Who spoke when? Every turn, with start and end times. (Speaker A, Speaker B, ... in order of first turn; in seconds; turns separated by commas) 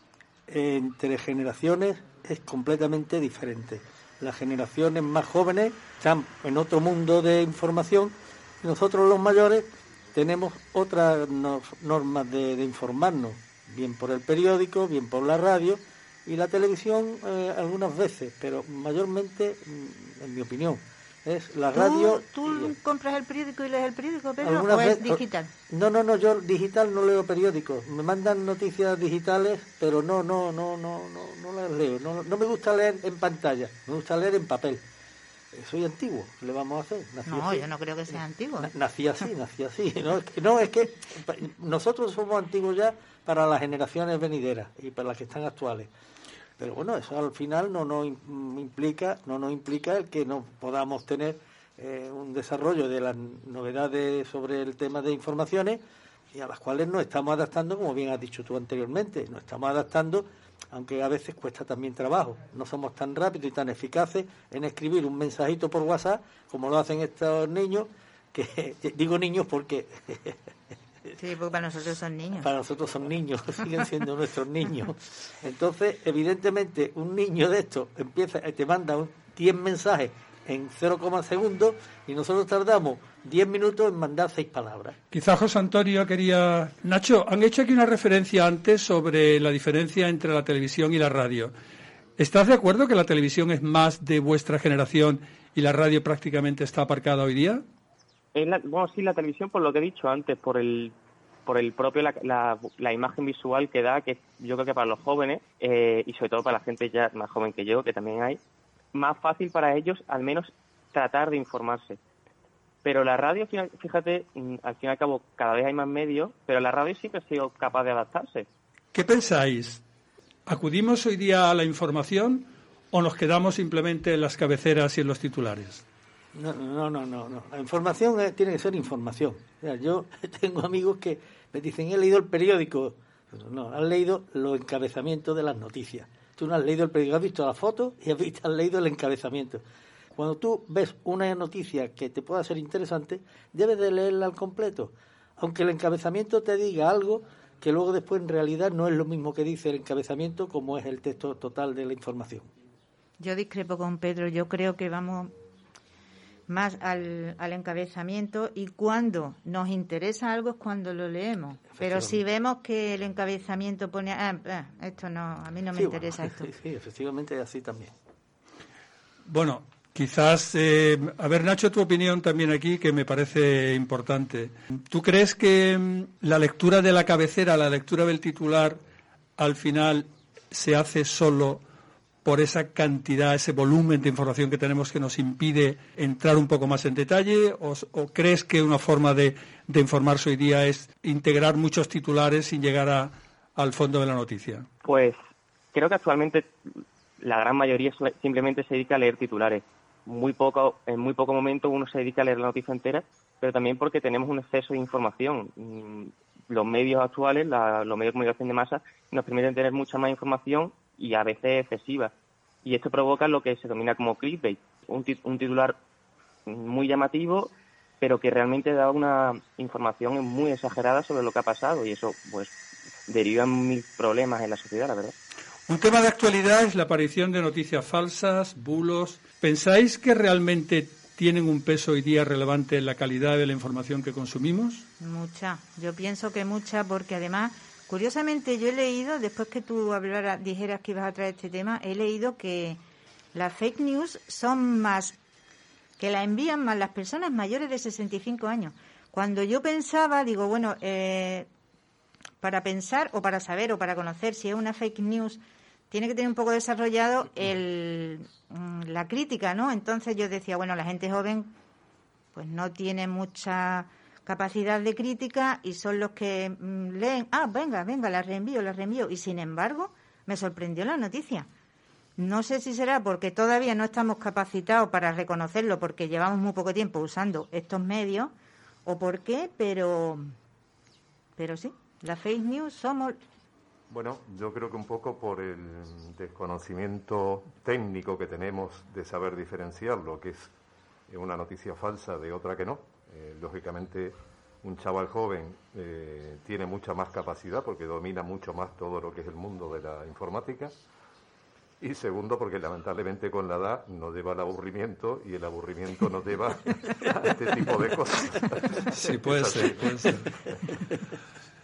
Speaker A: 0.5-22.7, Speaker B: 21.7-25.5, Speaker A: 24.4-34.8, Speaker A: 35.5-37.7, Speaker B: 37.2-38.7, Speaker A: 38.6-45.9, Speaker A: 46.6-55.8, Speaker A: 56.3-70.5, Speaker B: 71.2-72.5, Speaker A: 72.4-85.0, Speaker C: 85.1-91.5, Speaker C: 92.2-97.6, Speaker D: 98.3-100.9, Speaker D: 101.5-108.4, Speaker D: 108.9-112.0, Speaker D: 112.8-118.5, Speaker C: 118.9-119.8, Speaker C: 120.5-125.8, Speaker A: 126.3-139.6, Speaker A: 140.2-152.5, Speaker B: 153.2-155.3, Speaker B: 156.5-166.5, Speaker A: 161.8-162.2, Speaker A: 165.7-167.9, Speaker C: 169.3-178.8, Speaker C: 179.4-181.6, Speaker C: 182.2-194.7, Speaker D: 194.8-195.2, Speaker D: 195.7-196.5, Speaker D: 197.2-212.1, Speaker D: 212.6-215.8, Speaker D: 216.5-222.5, Speaker D: 223.1-225.1, Speaker C: 225.7-234.8, Speaker B: 235.0-242.8, Speaker B: 243.3-245.2, Speaker B: 246.0-251.5, Speaker B: 252.4-261.5, Speaker B: 262.3-271.5, Speaker B: 272.2-278.3, Speaker B: 278.8-280.2, Speaker B: 281.4-283.2, Speaker E: 283.9-290.5, Speaker E: 291.1-300.7, Speaker E: 301.8-310.7, Speaker C: 308.9-310.3